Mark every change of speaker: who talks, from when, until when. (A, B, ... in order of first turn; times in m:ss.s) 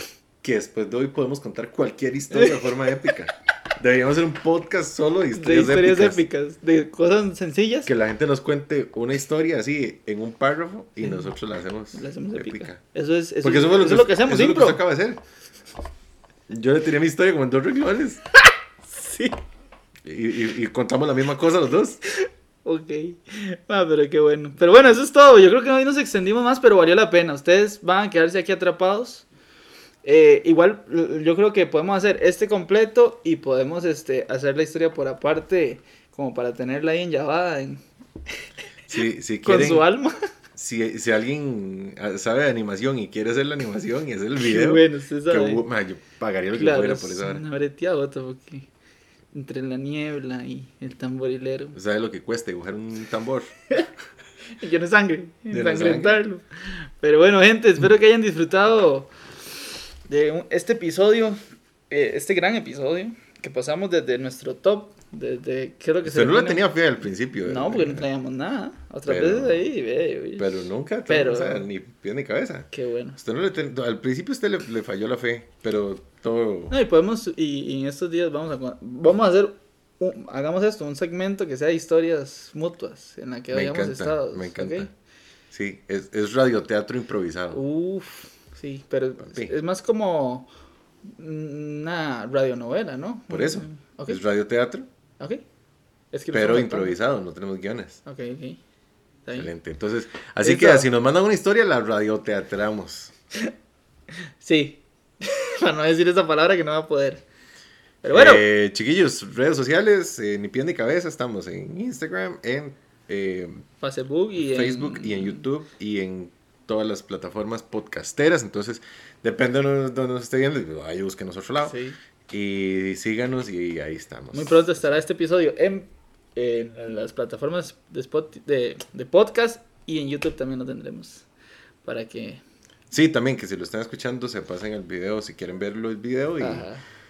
0:00.4-0:06.2 A
0:05.3-0:07.9 B
0:07.8-0:12.8 A
0:11.9-0:14.8 B
0:13.4-0:15.2 A
0:16.5-0:18.2 A
0:18.9-0:19.4 B
0:20.0-0:22.0 A
0:22.6-0:29.2 B
0:30.0-0:37.8 B
0:38.9-0:39.9 A
0:39.4-0:40.1 B
0:40.5-0:47.4 A
0:44.4-0:45.6 B
0:46.5-0:48.7 B
0:49.3-0:51.8 B
0:51.7-0:53.5 A
0:54.6-0:56.4 B
0:55.5-0:56.2 A
0:57.0-0:59.1 B
1:00.1-1:01.4 B
1:01.9-1:06.6 B
1:06.0-1:08.0 A
1:07.4-1:10.5 B
1:09.0-1:09.7 A
1:10.4-1:16.7 A
1:11.1-1:11.6 B
1:12.7-1:13.2 B
1:16.7-1:24.9 B
1:23.5-1:24.9 A
1:25.5-1:27.6 A
1:27.5-1:30.5 B
1:29.2-1:29.5 A
1:31.2-1:34.2 B
1:33.3-1:34.9 A
1:36.1-1:37.0 B
1:36.3-1:38.0 A
1:38.0-1:38.6 B
1:39.2-1:39.5 B
1:39.3-1:43.1 A
1:40.4-1:40.9 B
1:44.4-1:47.2 B
1:48.0-1:48.4 B
1:48.1-1:53.6 A
1:53.8-1:55.4 B
1:54.4-2:01.8 A
2:01.6-2:02.0 B
2:02.3-2:04.8 A
2:04.3-2:11.2 B
2:11.8-2:12.4 B
2:12.9-2:16.7 A
2:16.4-2:16.8 B